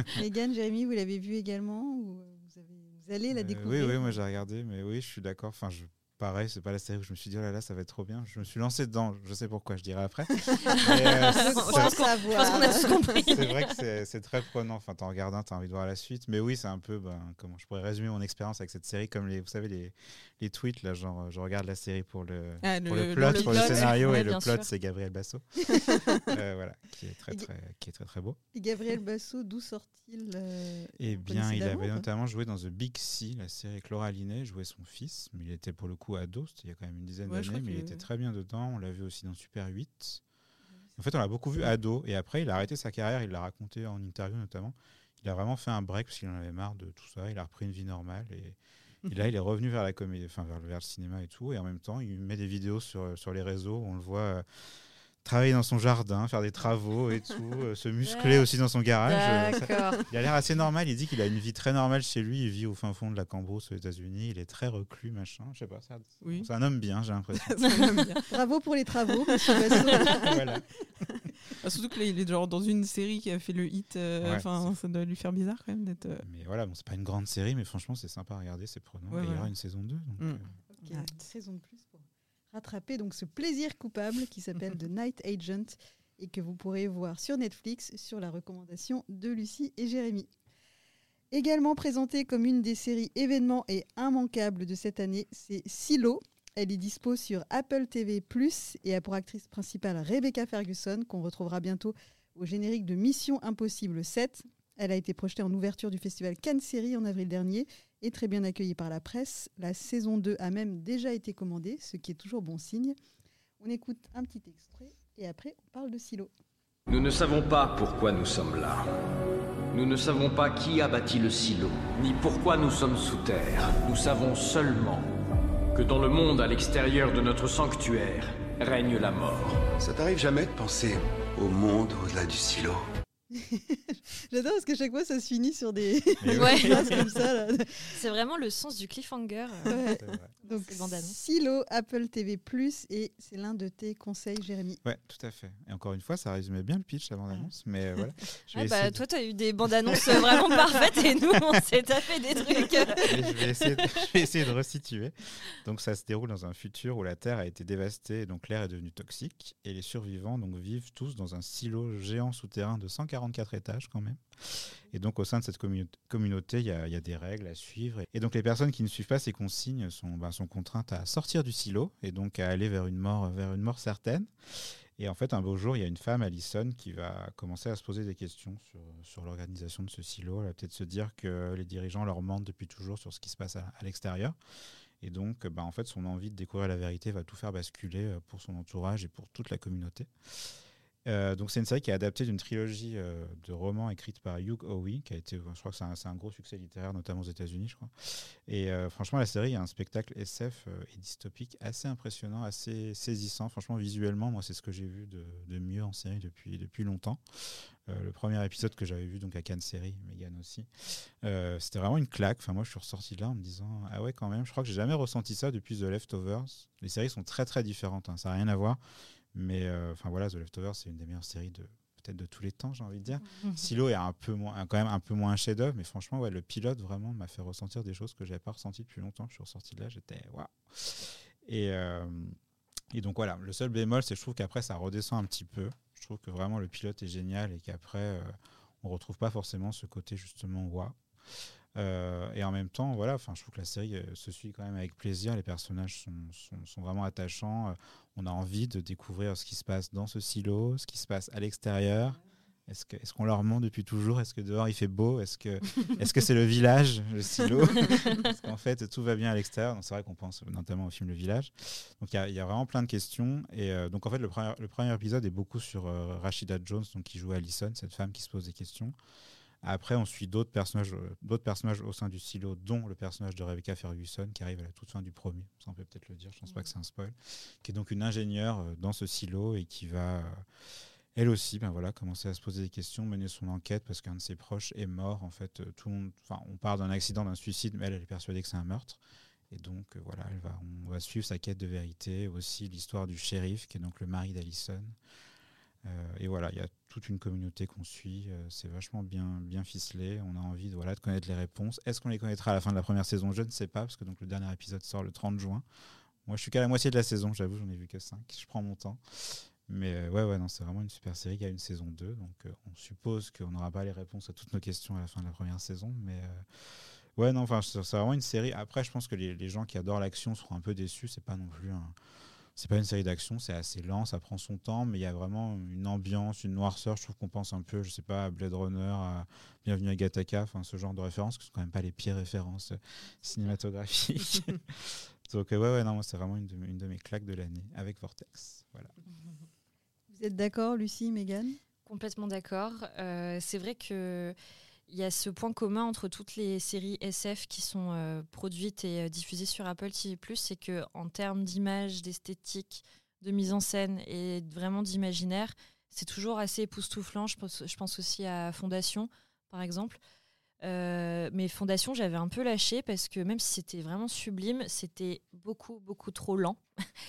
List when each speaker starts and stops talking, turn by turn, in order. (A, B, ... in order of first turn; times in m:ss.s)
0:00.1-0:04.1 A
0:03.3-0:28.4 B
0:10.8-0:13.8 C
0:11.3-0:12.9 A
0:22.6-0:24.2 D
0:23.2-0:24.7 C
0:25.8-0:26.1 D
0:28.5-0:32.0 A
0:31.0-0:40.2 B
0:37.2-0:38.0 D
0:41.0-0:54.4 B
0:55.2-1:08.0 B
0:58.0-0:58.5 C
0:59.0-1:00.0 C
1:06.2-1:06.5 D
1:07.4-1:08.3 D
1:08.3-1:10.3 A
1:09.3-1:10.3 D
1:10.1-1:10.6 B
1:11.1-1:16.2 D
1:14.2-1:14.7 B
1:16.2-1:20.5 B
1:19.1-1:19.5 D
1:20.2-1:21.1 D
1:20.7-1:30.3 A
1:31.3-1:53.0 A
1:53.6-1:56.3 A
1:56.9-1:58.9 E
1:59.7-2:05.1 E
2:05.7-2:09.7 E
2:09.8-2:12.8 F
2:13.3-2:17.9 A
2:16.2-2:17.1 B
2:16.3-2:17.1 C
2:17.9-2:19.8 C
2:19.7-2:24.8 A
2:20.0-2:20.3 B
2:20.4-2:21.2 C
2:24.8-2:29.0 B
2:28.5-2:33.2 C
2:29.9-2:30.5 B
2:33.0-3:04.4 B
3:05.0-3:10.1 B
3:11.0-3:30.7 B
3:31.2-3:38.8 B
3:39.3-3:52.4 B
3:52.9-4:01.0 B
4:01.7-4:28.9 B
4:29.6-4:40.4 B
4:41.1-4:55.0 B
4:55.8-5:05.6 B
5:06.2-5:16.4 B
5:17.2-5:21.9 B
5:22.6-5:38.9 B
5:40.1-5:41.6 A
5:41.9-5:44.3 C
5:44.9-6:00.0 C
6:00.6-6:06.6 C